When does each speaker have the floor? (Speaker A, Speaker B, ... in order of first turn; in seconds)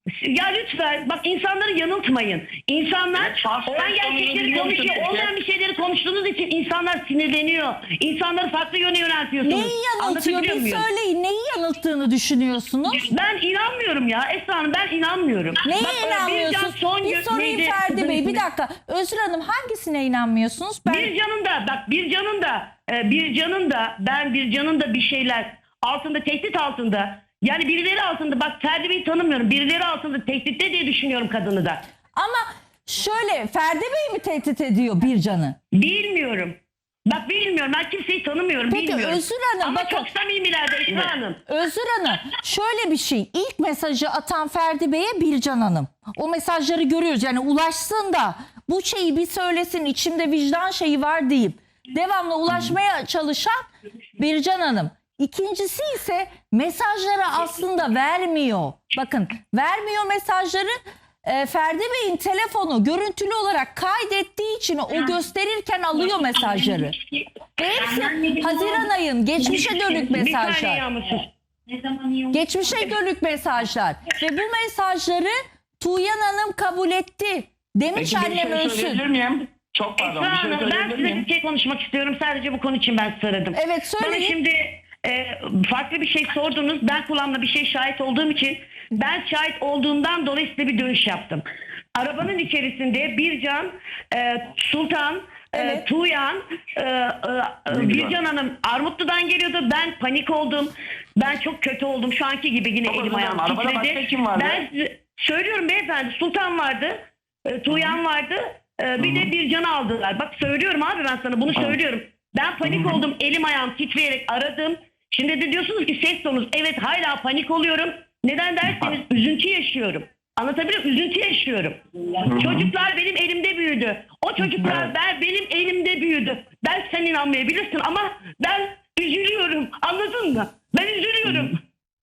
Speaker A: 0.1-10.9, 12.9-18.4, 20.9-31.8, 35.7-41.4, 66.2-66.9, 67.8-68.9, 69.4-72.4, 80.0-91.4, 92.0-131.6
Speaker B: 3.1-5.3, 78.0-81.3, 97.7-98.2, 102.9-104.7, 107.7-108.0, 109.0-109.3, 112.6-113.0, 122.2-122.7, 124.6-124.9
Speaker C: 9.4-13.1, 15.6-21.1, 32.2-35.6, 38.7-40.1, 41.5-67.0, 67.6-70.8, 72.3-79.0, 83.5-84.3, 95.5-95.8